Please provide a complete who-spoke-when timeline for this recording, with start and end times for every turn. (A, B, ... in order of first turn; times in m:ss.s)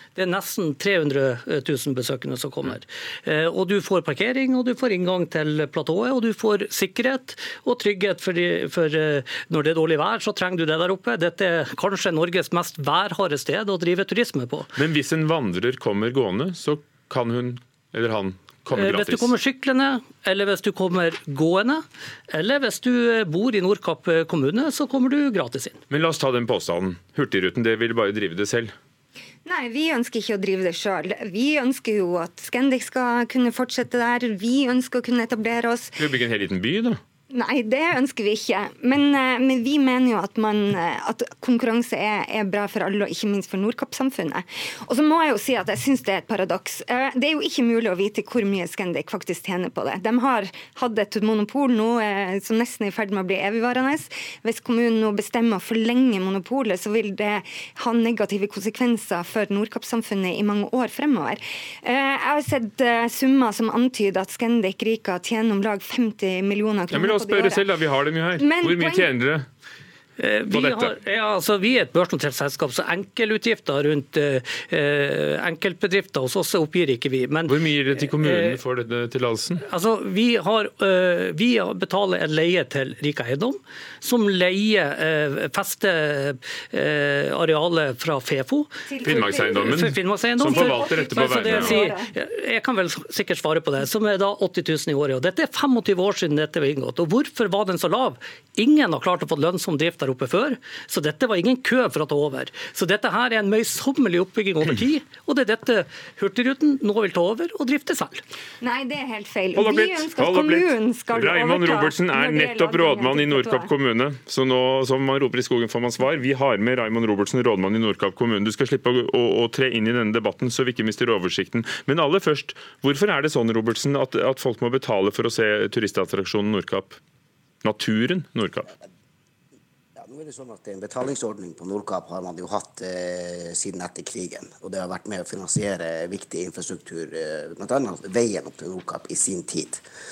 0:00.2-0:14.7 A
0:14.8-0:19.3 B
0:18.7-0:25.8 A
0:25.9-0:28.7 B
0:29.4-0:36.0 C
0:36.0-0:37.0 B
0:37.3-1:07.7 C
1:06.9-1:09.5 B
1:08.4-1:09.1 C
1:10.2-1:18.6 A
1:10.5-1:10.9 B
1:17.5-1:19.6 B
1:19.6-1:48.2 A
1:28.9-1:29.9 C
1:29.0-1:31.9 B
1:30.4-1:32.1 C
1:48.6-1:53.7 C
1:49.6-2:07.0 B
2:07.6-2:08.7 B
2:10.0-2:19.8 D